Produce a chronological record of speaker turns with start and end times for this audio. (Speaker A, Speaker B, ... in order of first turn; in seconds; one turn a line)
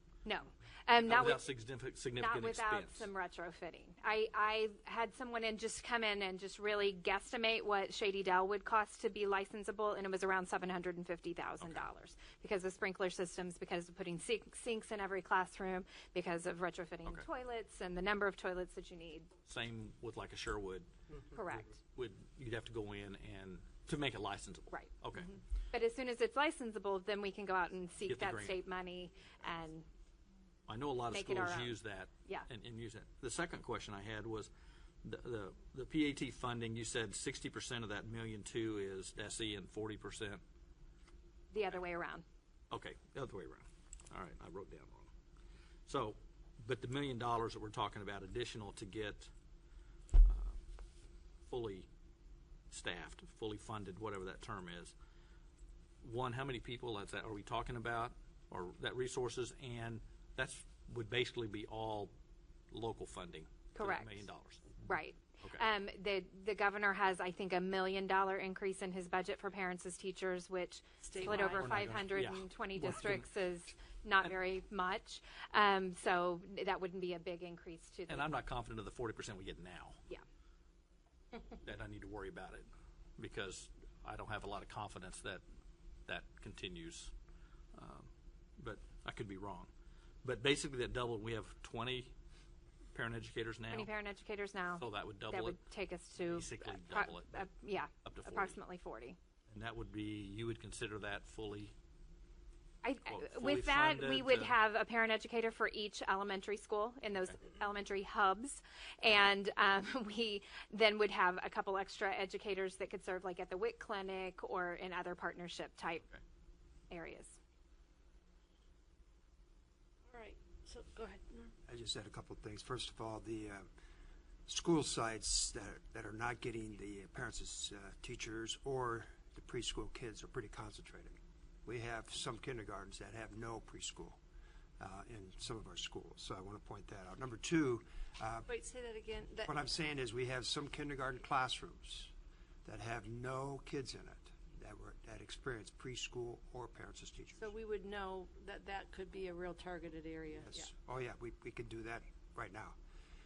Speaker A: 0.3-1.5
Speaker B: 1.1-3.1
Speaker A: 2.2-19.3
Speaker B: 19.5-20.9
Speaker A: 21.3-21.7
Speaker B: 21.7-25.4
Speaker A: 25.7-29.9
Speaker B: 28.1-28.6
Speaker B: 30.7-34.5
Speaker A: 31.1-32.5
Speaker B: 35.0-40.4
Speaker A: 41.5-42.2
Speaker B: 42.7-45.1
Speaker B: 45.9-49.3
Speaker B: 50.2-50.6
Speaker B: 51.5-51.9
Speaker B: 52.7-54.9
Speaker B: 56.0-62.1
Speaker B: 62.7-64.8
Speaker A: 63.8-64.3
Speaker A: 64.8-78.3
Speaker B: 65.4-65.7
Speaker C: 71.0-71.7
Speaker B: 71.2-73.3
Speaker B: 78.1-80.0
Speaker B: 81.6-85.4
Speaker B: 86.1-87.1
Speaker B: 87.7-89.7
Speaker B: 90.2-92.2
Speaker B: 92.9-93.9
Speaker A: 93.7-99.2
Speaker B: 94.8-95.6
Speaker B: 96.2-97.5
Speaker B: 98.0-98.6
Speaker B: 99.5-101.7
Speaker A: 102.8-116.0
Speaker B: 103.0-104.5
Speaker A: 116.9-117.4
Speaker C: 120.1-121.5
Speaker D: 121.7-123.7
Speaker D: 124.5-134.2
Speaker D: 134.8-138.5
Speaker C: 138.5-139.5
Speaker D: 139.5-142.1
Speaker D: 142.7-147.5
Speaker C: 147.3-150.7
Speaker D: 150.4-152.8